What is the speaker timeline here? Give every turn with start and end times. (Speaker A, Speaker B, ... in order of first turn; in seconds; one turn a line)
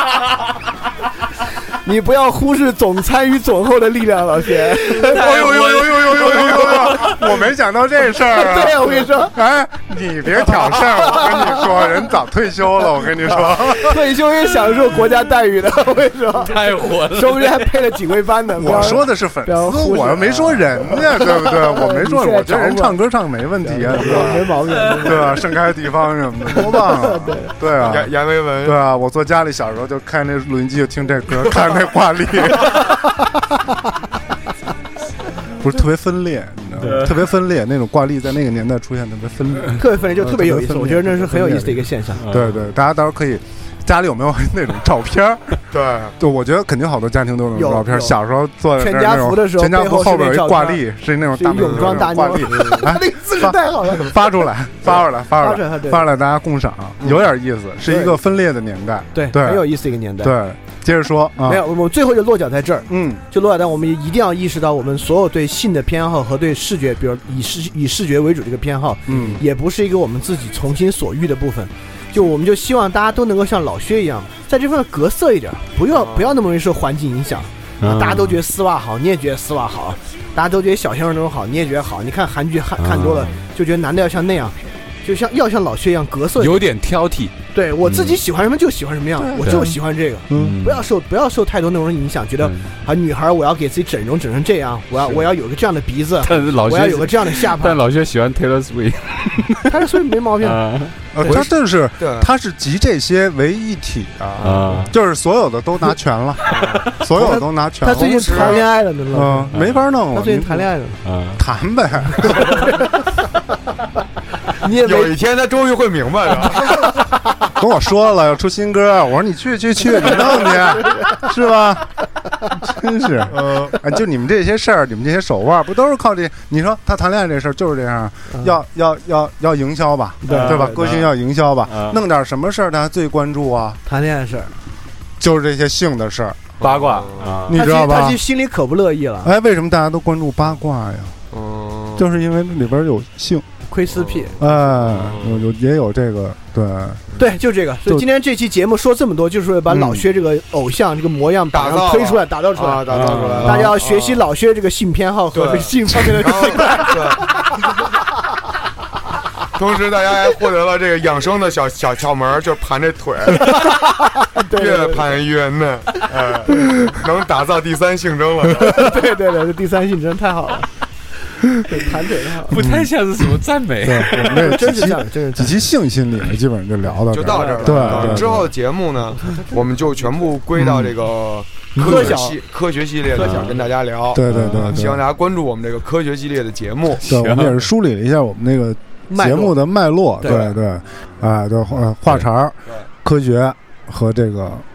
Speaker A: 1.8-5.3
Speaker B: 5.0-7.3
Speaker C: 5.0-14.1
Speaker A: 8.2-9.4
Speaker A: 10.7-11.8
Speaker A: 13.3-23.0
Speaker B: 16.4-17.7
Speaker C: 18.6-33.1
Speaker A: 23.6-25.4
Speaker D: 23.9-24.5
Speaker A: 26.5-27.5
Speaker D: 27.7-28.8
Speaker C: 35.5-45.6
Speaker B: 36.8-37.2
Speaker A: 39.8-42.2
Speaker B: 42.2-42.7
Speaker D: 45.7-46.1
Speaker C: 46.2-59.7
Speaker A: 47.5-48.2
Speaker A: 48.8-50.8
Speaker A: 51.3-56.1
Speaker D: 51.5-52.9
Speaker A: 57.9-58.2
Speaker A: 59.1-60.4
Speaker C: 60.2-61.6
Speaker A: 61.4-86.7
Speaker C: 62.9-63.2
Speaker C: 69.1-69.4
Speaker D: 75.9-76.3
Speaker B: 77.8-78.4
Speaker B: 82.8-83.5
Speaker B: 86.3-88.2
Speaker A: 87.5-97.8
Speaker C: 89.2-89.8
Speaker B: 89.4-89.7
Speaker C: 90.3-90.6
Speaker B: 90.3-90.9
Speaker B: 92.4-92.7
Speaker B: 96.2-99.9
Speaker A: 99.7-101.4
Speaker B: 100.4-101.0
Speaker D: 101.2-102.3
Speaker C: 101.2-104.2
Speaker D: 104.2-104.8
Speaker B: 104.4-104.9
Speaker C: 104.8-110.7
Speaker D: 106.4-106.9
Speaker A: 107.1-109.5
Speaker D: 107.8-108.6
Speaker B: 109.5-109.8
Speaker A: 110.1-111.0
Speaker B: 111.0-111.4
Speaker C: 111.4-112.8
Speaker A: 112.4-112.9
Speaker A: 114.6-115.2
Speaker D: 114.8-117.0
Speaker C: 117.5-133.8
Speaker D: 123.3-123.8
Speaker A: 128.3-128.6
Speaker A: 130.2-130.7
Speaker B: 130.2-131.1
Speaker B: 131.7-132.0
Speaker A: 133.8-134.5
Speaker C: 135.2-136.4
Speaker D: 136.6-137.5
Speaker B: 136.6-137.6
Speaker C: 137.5-138.2
Speaker A: 137.5-139.3
Speaker C: 139.2-141.2
Speaker D: 141.3-142.1
Speaker C: 141.9-143.5
Speaker A: 143.7-144.4
Speaker D: 143.9-145.5
Speaker C: 144.4-147.0
Speaker A: 147.2-152.9
Speaker C: 149.7-150.1
Speaker D: 151.5-154.3
Speaker B: 152.9-153.7
Speaker A: 153.4-157.0
Speaker D: 155.3-157.3
Speaker D: 159.5-163.6
Speaker A: 164.3-165.1
Speaker D: 164.5-169.0
Speaker A: 168.6-170.7
Speaker A: 171.6-172.6
Speaker B: 172.5-174.4
Speaker C: 172.6-173.0
Speaker C: 173.8-178.5
Speaker A: 174.2-175.7
Speaker D: 177.1-187.0
Speaker B: 177.3-178.2
Speaker A: 181.7-182.4
Speaker B: 183.2-183.6
Speaker C: 184.1-185.1
Speaker B: 184.2-184.8
Speaker C: 187.0-194.6
Speaker B: 187.0-187.6
Speaker A: 189.1-189.6
Speaker A: 190.2-190.5